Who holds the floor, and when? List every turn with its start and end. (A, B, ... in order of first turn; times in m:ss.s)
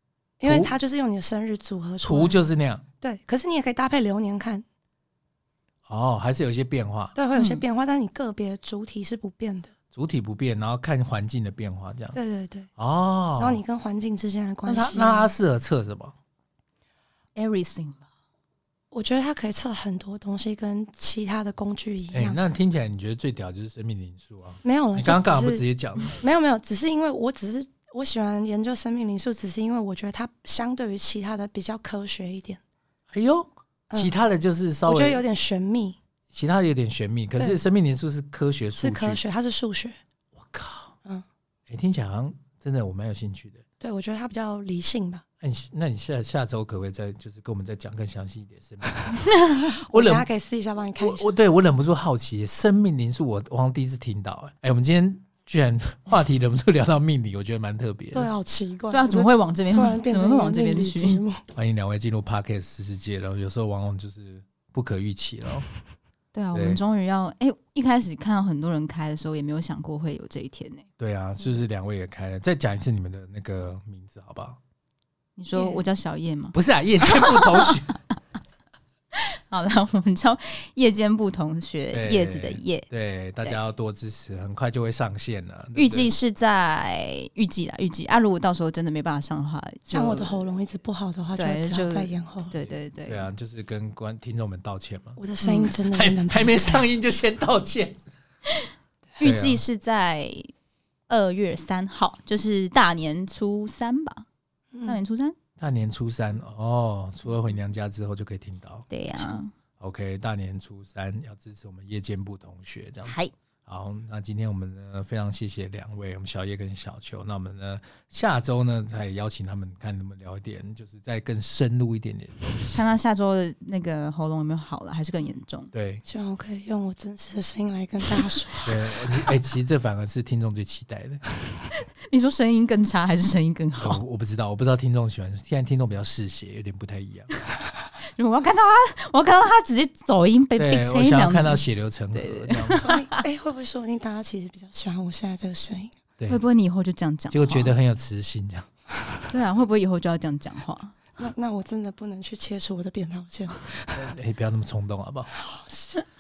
0:00.4-0:02.4 A
0:00.4-0:00.7 B
0:02.0-0:02.8 B
0:03.0-0:04.6 A
0:05.9-0:07.2 B
0:07.2-0:09.7 A
0:07.4-0:07.6 C
0:09.9-0:12.2 B
0:12.1-0:12.7 A
0:12.8-0:13.6 B
0:13.4-0:15.3 A
0:14.7-0:16.2 B
0:17.4-0:18.0 C
0:18.9-0:22.4 A
0:22.1-0:26.2 B
0:24.6-0:32.6 A
0:33.1-0:35.2 B
0:34.9-0:36.0 A
0:36.3-0:39.2 B
0:38.8-0:40.0 A
0:40.4-0:40.9 B
0:41.7-0:43.6 B
0:43.8-0:45.2 A
0:45.4-0:49.3 B
0:49.3-0:49.6 C
0:49.8-0:51.3 A
0:49.9-0:50.3 B
0:51.0-0:58.3 B
0:58.1-1:01.4 A
0:58.9-1:01.2 C
1:01.5-1:05.7 B
1:06.3-1:10.9 C
1:06.5-1:06.8 B
1:11.0-1:14.6 B
1:15.4-1:17.9 C
1:15.5-1:15.8 A
1:16.5-1:17.9 B
1:19.5-1:22.9 C
1:21.9-1:26.1 B
1:25.8-1:30.5 C
1:29.9-1:32.5 A
1:31.4-1:33.3 C
1:33.1-1:35.2 B
1:35.2-1:36.9 A
1:35.4-1:35.8 C
1:35.9-1:38.0 B
1:39.2-1:40.5 C
1:39.2-1:39.6 B
1:41.1-1:44.2 C
1:44.7-1:45.0 A
1:44.9-1:45.4 C
1:45.6-2:02.8 B
1:48.9-1:49.5 C
1:53.1-1:53.3 C
2:02.7-2:05.7 C
2:05.7-2:06.0 B
2:06.1-2:08.8 A
2:08.7-2:11.2 B
2:12.1-2:14.0 C
2:13.8-2:17.3 B
2:18.2-2:23.2 C
2:20.6-2:22.9 B
2:22.8-2:26.0 A
2:26.3-2:27.7 C
2:27.3-2:28.7 B
2:29.3-2:31.0 C
2:31.2-2:34.1 A
2:33.9-2:35.3 B
2:35.3-2:36.0 A